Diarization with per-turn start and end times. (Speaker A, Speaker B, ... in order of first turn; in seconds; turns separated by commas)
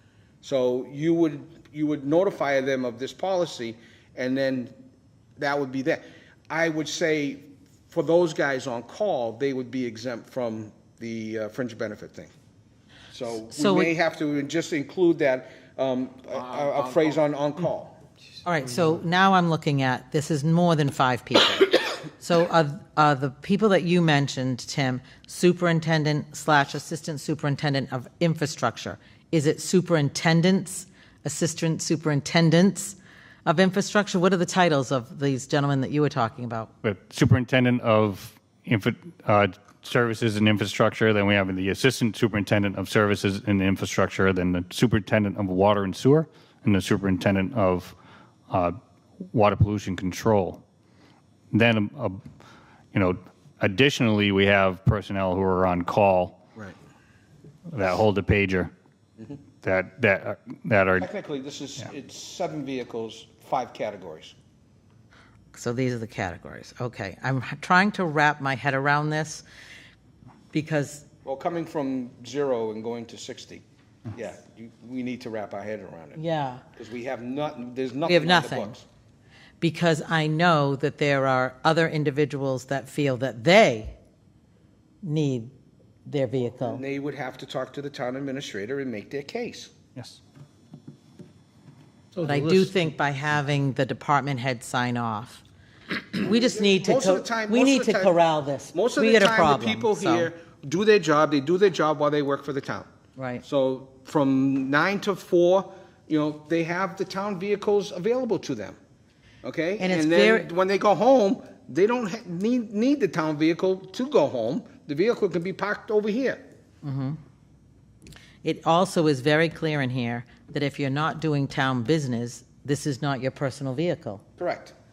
Speaker A: 0.4-4.7, Speaker A: 5.4-12.3, Speaker A: 13.1-17.9, Speaker B: 13.4-13.9, Speaker B: 18.4-36.7, Speaker C: 36.8-47.9, Speaker C: 48.5-48.7, Speaker C: 49.3-50.6, Speaker C: 51.5-52.2, Speaker C: 52.9-56.4, Speaker C: 57.7-58.7, Speaker C: 59.6-61.1, Speaker A: 61.0-64.3, Speaker B: 65.5-69.4, Speaker B: 70.5-71.1, Speaker A: 71.2-76.2, Speaker B: 76.1-76.6, Speaker A: 76.7-78.8, Speaker B: 78.0-78.7, Speaker B: 79.6-84.0, Speaker B: 85.0-85.5, Speaker B: 86.0-86.8, Speaker A: 86.5-89.7, Speaker B: 92.2-95.4, Speaker B: 96.1-100.3, Speaker A: 96.2-98.1, Speaker A: 98.7-102.9, Speaker B: 103.2-103.4, Speaker A: 103.4-108.8, Speaker A: 109.4-116.4, Speaker B: 109.8-110.5, Speaker B: 116.8-117.2, Speaker B: 118.4-124.2, Speaker A: 124.4-124.7